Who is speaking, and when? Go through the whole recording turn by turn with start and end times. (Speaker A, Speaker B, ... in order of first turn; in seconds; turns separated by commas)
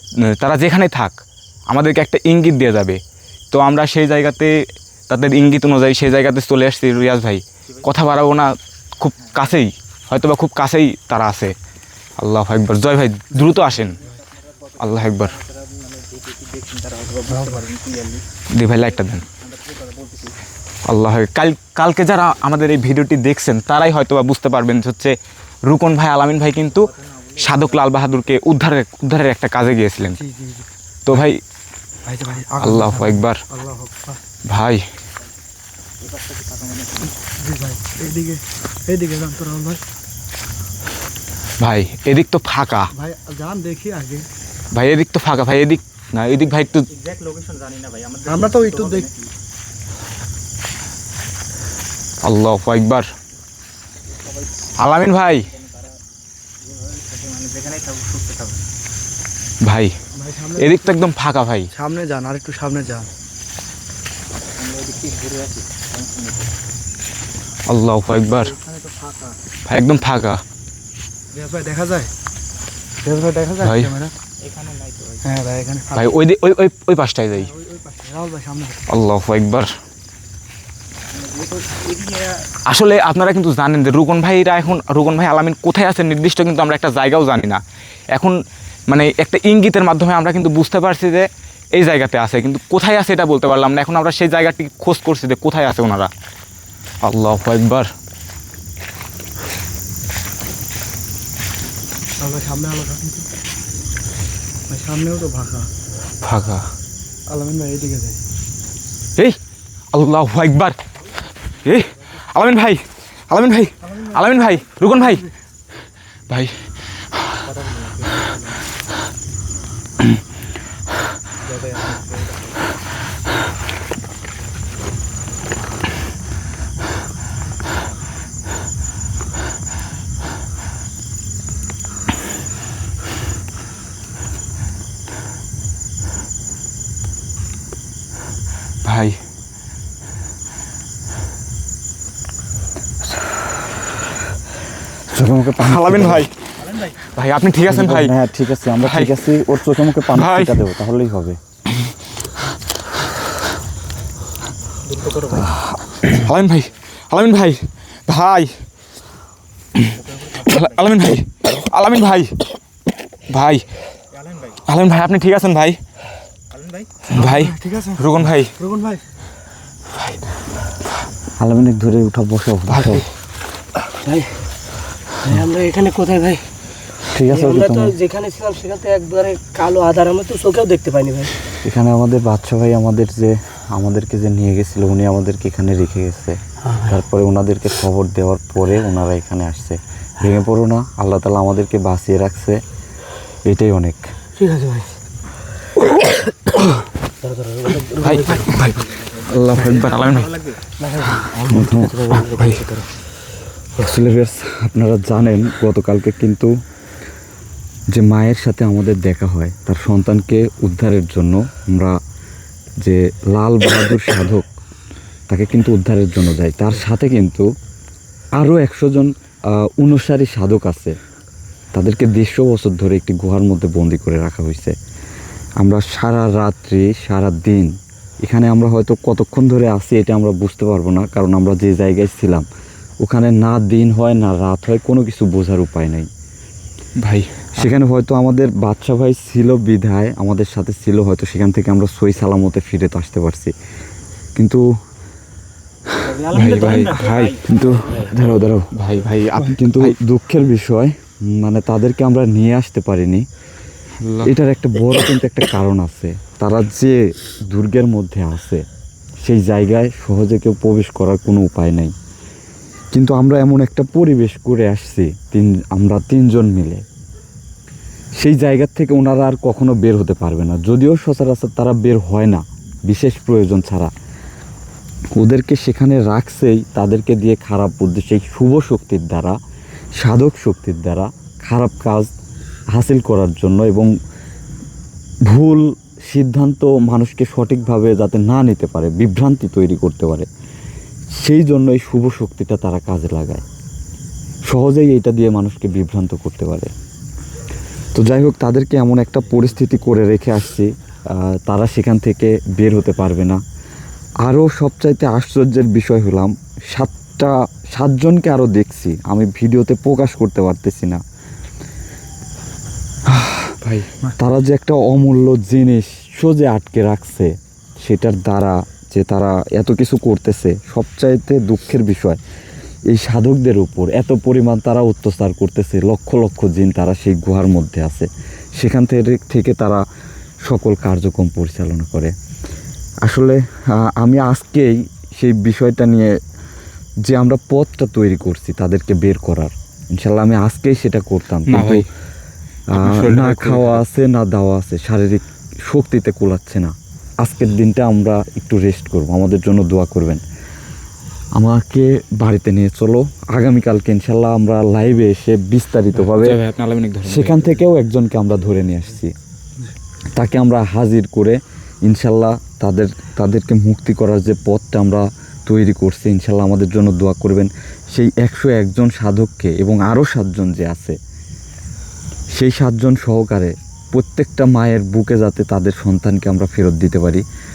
Speaker A: 0.2-1.1, Speaker A: 1.7-3.0, Speaker A: 3.5-11.5, Speaker A: 12.2-14.0, Speaker B: 13.8-14.1, Speaker B: 14.7-18.2, Speaker A: 14.8-15.4, Speaker C: 17.3-17.7, Speaker A: 18.5-19.3, Speaker B: 19.4-20.4, Speaker A: 20.8-30.2, Speaker B: 26.9-27.6, Speaker C: 30.1-30.7, Speaker A: 31.0-31.4, Speaker C: 32.0-34.2, Speaker A: 32.6-33.4, Speaker A: 34.5-34.8, Speaker B: 36.0-37.1, Speaker C: 37.4-39.8, Speaker A: 41.6-42.9, Speaker C: 42.9-44.3, Speaker A: 44.7-46.9, Speaker B: 46.9-49.3, Speaker C: 48.3-49.1, Speaker A: 52.2-53.1, Speaker A: 54.8-55.5, Speaker B: 55.6-55.9, Speaker B: 56.6-58.6, Speaker A: 59.6-59.9, Speaker C: 60.1-61.0, Speaker A: 60.5-61.7, Speaker C: 61.7-63.1, Speaker B: 64.5-66.5, Speaker A: 67.7-68.5, Speaker B: 68.5-69.3, Speaker A: 69.7-70.4, Speaker C: 71.3-72.1, Speaker C: 73.0-74.1, Speaker A: 73.6-73.9, Speaker B: 74.4-75.2, Speaker C: 75.2-76.1, Speaker A: 75.9-77.5, Speaker C: 77.4-78.8, Speaker A: 78.9-79.7, Speaker B: 81.1-82.4, Speaker A: 82.6-87.6, Speaker A: 88.1-96.1, Speaker A: 97.0-97.9, Speaker C: 102.2-103.3, Speaker C: 104.7-105.7, Speaker A: 106.2-106.7, Speaker C: 107.3-108.2, Speaker A: 109.9-110.8, Speaker A: 111.6-115.3, Speaker A: 116.3-116.6, Speaker B: 117.5-118.4, Speaker B: 121.5-122.2, Speaker A: 138.8-139.2, Speaker D: 145.1-146.3, Speaker A: 145.6-146.4, Speaker A: 147.1-148.1, Speaker D: 147.7-151.4, Speaker A: 148.8-149.1, Speaker A: 150.1-150.6, Speaker B: 154.8-155.5, Speaker A: 156.0-158.6, Speaker A: 159.8-162.5, Speaker B: 160.0-160.8, Speaker A: 163.3-163.7, Speaker B: 164.1-164.6, Speaker A: 164.6-165.8, Speaker B: 166.5-166.9, Speaker A: 167.1-168.5, Speaker C: 167.1-169.0, Speaker D: 171.4-173.1, Speaker A: 172.7-173.0, Speaker E: 174.0-174.4, Speaker E: 175.3-176.5, Speaker D: 177.1-178.0, Speaker E: 177.3-181.3, Speaker D: 181.6-192.6, Speaker D: 193.4-194.1, Speaker E: 194.3-195.0, Speaker E: 195.8-196.3, Speaker E: 197.2-198.5, Speaker A: 198.0-200.4, Speaker B: 199.9-200.5, Speaker E: 200.8-202.9, Speaker D: 201.4-202.0, Speaker A: 202.2-202.7, Speaker D: 203.8-206.5, Speaker D: 207.9-212.0, Speaker D: 212.8-214.4, Speaker D: 215.3-217.5, Speaker D: 218.3-220.9, Speaker D: 221.7-224.8, Speaker D: 225.6-232.4, Speaker D: 233.0-236.1, Speaker A: 237.0-237.7, Speaker D: 237.6-243.5, Speaker D: 244.3-244.6, Speaker B: 246.1-248.0, Speaker A: 246.3-247.7, Speaker D: 247.4-248.7, Speaker A: 248.7-250.0, Speaker D: 249.6-253.2, Speaker A: 254.0-254.3, Speaker D: 254.2-258.6, Speaker D: 259.2-261.9, Speaker D: 262.9-266.8, Speaker D: 268.2-273.9, Speaker D: 275.1-279.4, Speaker D: 280.0-282.1, Speaker D: 282.7-283.9, Speaker D: 285.2-290.3, Speaker D: 291.1-293.4, Speaker D: 294.4-296.7, Speaker D: 297.9-303.4, Speaker D: 304.2-311.0, Speaker D: 313.1-313.5, Speaker A: 313.6-313.9, Speaker D: 314.2-322.2, Speaker D: 322.9-329.8, Speaker D: 330.4-332.1, Speaker D: 333.0-336.1, Speaker D: 337.0-341.9, Speaker A: 341.5-341.9, Speaker D: 342.7-350.2, Speaker A: 342.7-343.8, Speaker D: 351.3-356.4, Speaker A: 355.9-357.6, Speaker D: 357.0-359.1, Speaker D: 360.1-370.9, Speaker D: 372.3-377.2